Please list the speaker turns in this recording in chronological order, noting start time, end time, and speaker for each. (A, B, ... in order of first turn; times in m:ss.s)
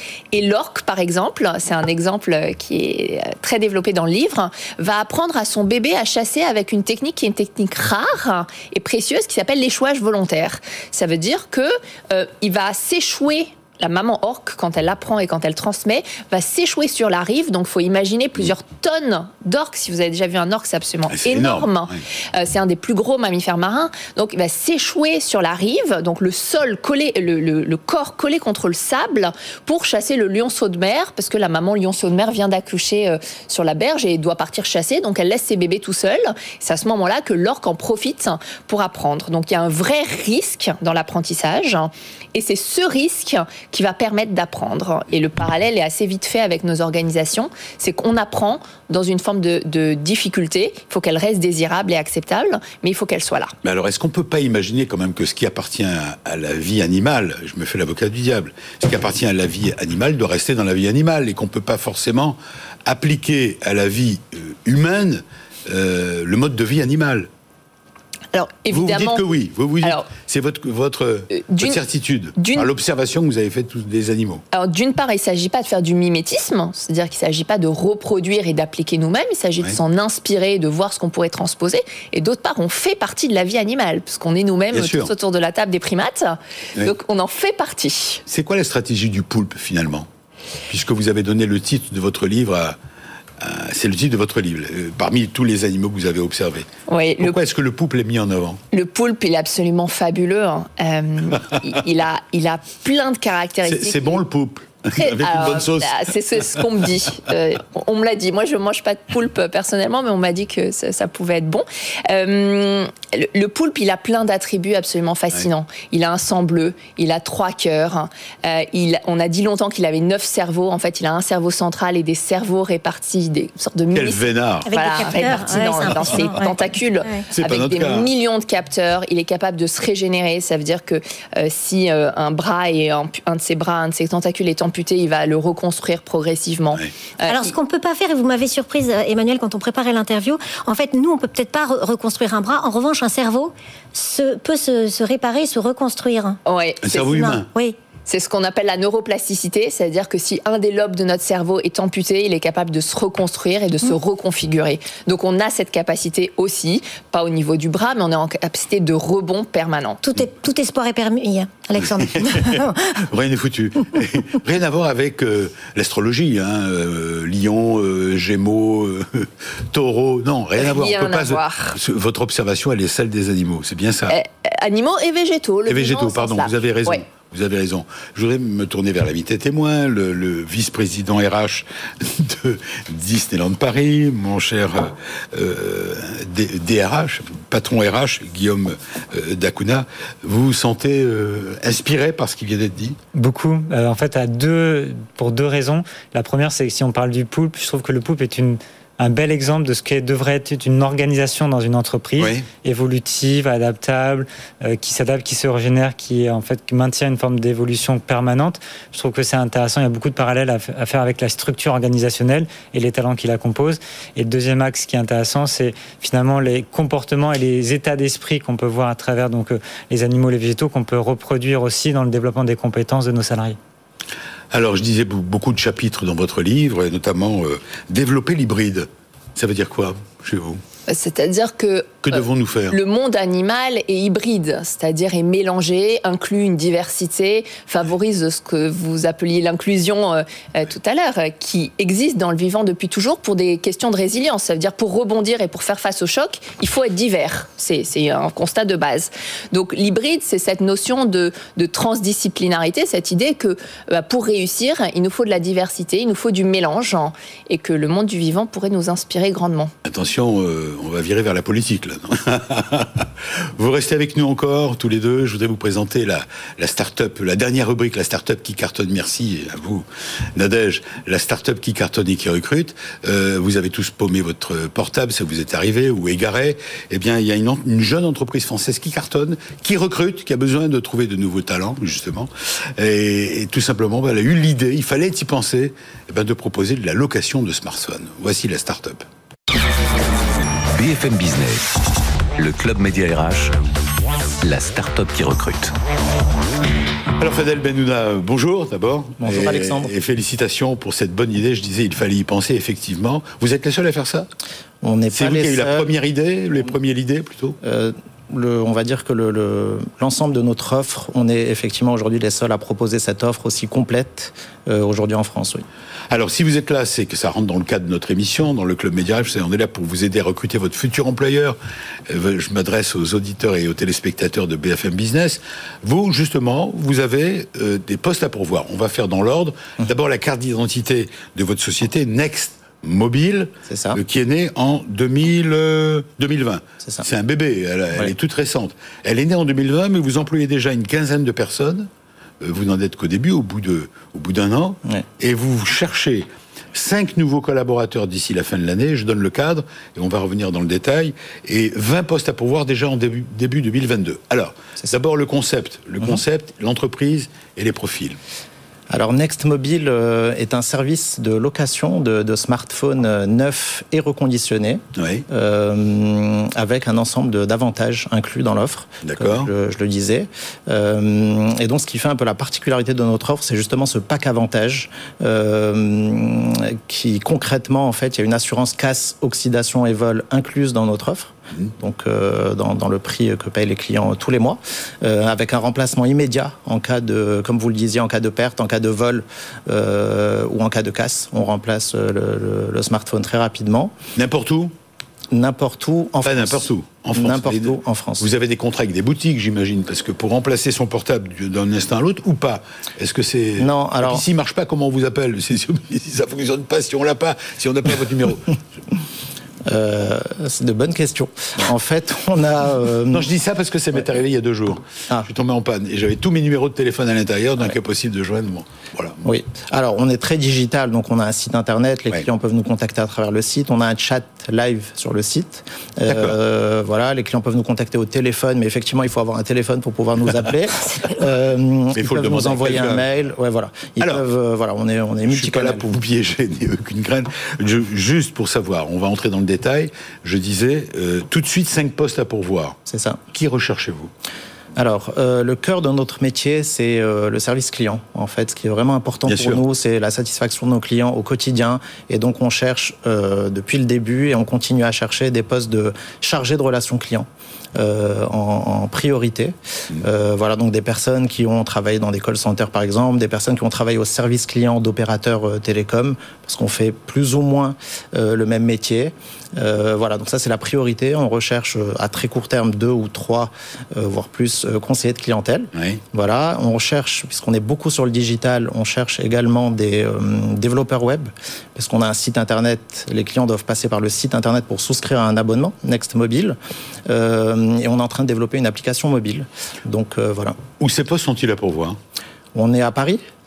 0:00.3-0:53.5 A
0:21.1-0:21.8 B
0:53.6-1:07.3 B
1:08.3-1:09.2 A
1:08.7-1:14.4 B
1:11.3-1:11.8 A
1:12.4-1:12.7 A
1:14.5-1:28.2 A
1:24.7-1:25.1 B
1:28.3-1:30.1 B
1:30.7-1:32.8 B
1:33.4-1:36.7 B
1:36.9-1:37.4 A
1:37.2-1:38.6 B
1:38.7-1:44.2 A
1:43.6-1:46.6 B
1:45.0-2:17.5 A
2:03.9-2:04.7 B
2:04.6-2:07.2 C
2:05.8-2:06.3 B
2:07.3-2:08.1 B
2:17.3-2:26.4 C
2:26.4-2:27.4 A
2:26.8-2:27.5 B
2:27.3-2:27.8 C
2:28.0-2:40.0 A
2:40.0-2:43.1 C
2:41.9-2:54.2 B
2:50.6-2:51.8 A
2:54.1-2:57.0 A
2:55.7-3:13.0 B
3:13.1-3:43.6 D
3:22.2-3:22.4 B
3:44.5-3:50.6 B
3:50.9-4:19.7 A
3:52.0-3:52.8 B
4:19.8-4:49.0 B
4:50.7-4:51.7 E
4:52.4-4:53.5 E
4:54.4-4:55.7 E
4:57.2-5:04.3 B
4:59.2-4:59.9 F
5:04.8-5:05.9 F
5:05.1-5:07.6 B
5:07.6-5:15.6 F
5:16.1-5:21.6 B
5:22.1-5:41.9 B
5:33.7-5:34.0 F
5:42.4-5:58.2 B
5:58.9-6:33.9 F
6:05.0-6:05.2 B
6:09.0-6:09.5 B
6:34.2-6:34.7 B
6:35.3-6:38.3 F
6:36.2-6:48.6 B
6:43.6-6:44.2 F
6:49.6-6:53.3 F
6:53.1-6:59.2 B
6:59.2-7:16.0 F
7:06.1-7:06.4 B
7:11.9-7:13.1 B
7:15.3-7:22.8 B
7:22.9-7:23.2 F
7:23.3-7:24.1 B
7:24.8-8:10.6 F
7:29.3-7:29.6 B
7:55.7-7:56.0 B
8:10.8-8:12.0 B
8:12.5-8:13.2 F